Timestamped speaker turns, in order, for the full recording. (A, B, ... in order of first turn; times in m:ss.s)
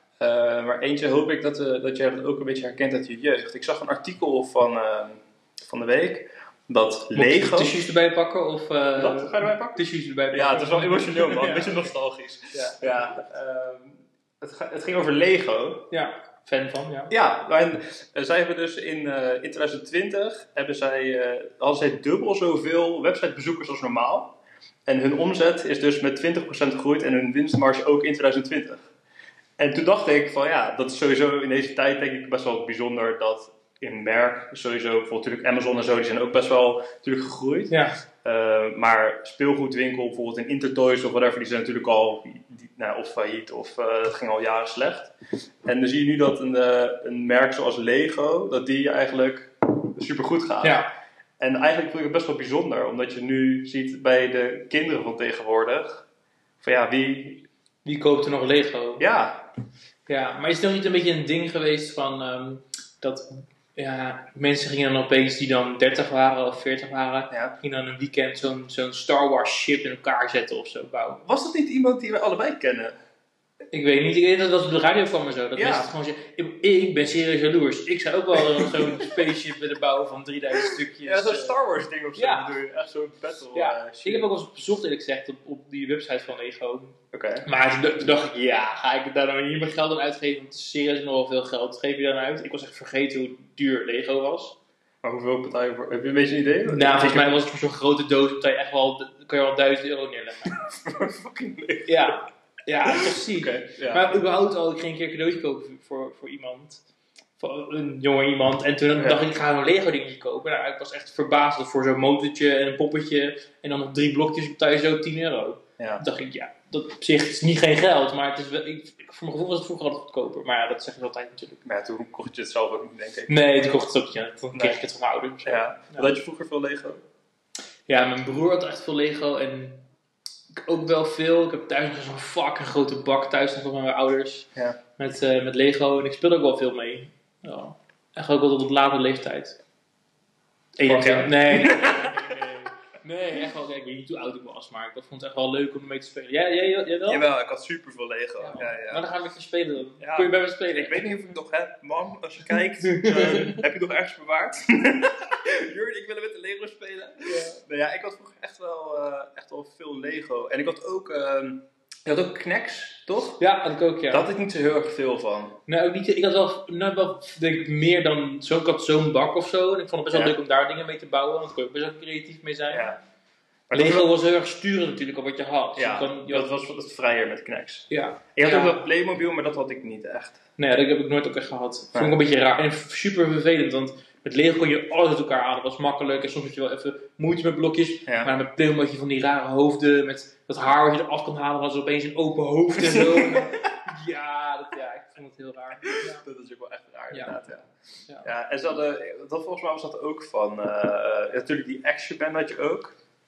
0:00.2-0:07.7 A
0:07.1-0:11.9 B
0:09.0-0:15.9 A
0:12.5-0:12.9 B
0:15.9-0:17.1 B
0:17.1-0:28.9 A
0:29.6-0:45.1 A
0:37.7-0:38.0 B
0:45.6-0:50.8 A
0:50.6-0:50.9 B
0:51.4-0:56.0 A
0:56.6-0:57.5 A
0:57.8-0:59.1 B
0:59.0-0:59.5 A
1:00.1-1:11.2 B
1:11.2-1:13.0 A
1:13.7-1:21.5 B
1:15.6-1:15.9 A
1:18.5-1:19.1 A
1:21.0-1:24.3 A
1:22.2-1:22.5 B
1:23.5-1:34.6 B
1:27.1-1:27.5 A
1:35.0-1:37.4 A
1:36.7-1:40.6 B
1:40.5-1:42.1 A
1:41.9-1:46.8 B
1:42.9-1:44.1 A
1:47.4-2:01.6 B
1:55.8-1:56.0 A
2:01.6-2:03.3 A
2:03.3-2:06.1 B
2:04.5-2:04.8 A
2:05.4-2:07.0 A
2:07.9-2:09.9 B
2:10.5-2:19.6 B
2:20.8-2:27.2 B
2:20.8-2:22.5 A
2:27.1-2:29.0 A
2:28.4-2:31.1 B
2:30.0-2:43.4 A
2:32.8-2:33.6 B
2:37.2-2:37.6 B
2:43.4-2:44.3 B
2:44.1-2:45.6 A
2:45.7-2:52.9 B
2:52.7-2:53.0 A
2:53.7-2:54.1 A
2:53.7-2:56.6 B
2:55.8-3:00.4 A
2:57.9-2:58.8 B
3:00.6-3:16.2 B
3:08.0-3:08.3 A
3:12.8-3:13.5 A
3:15.8-3:17.7 A
3:18.2-3:23.0 A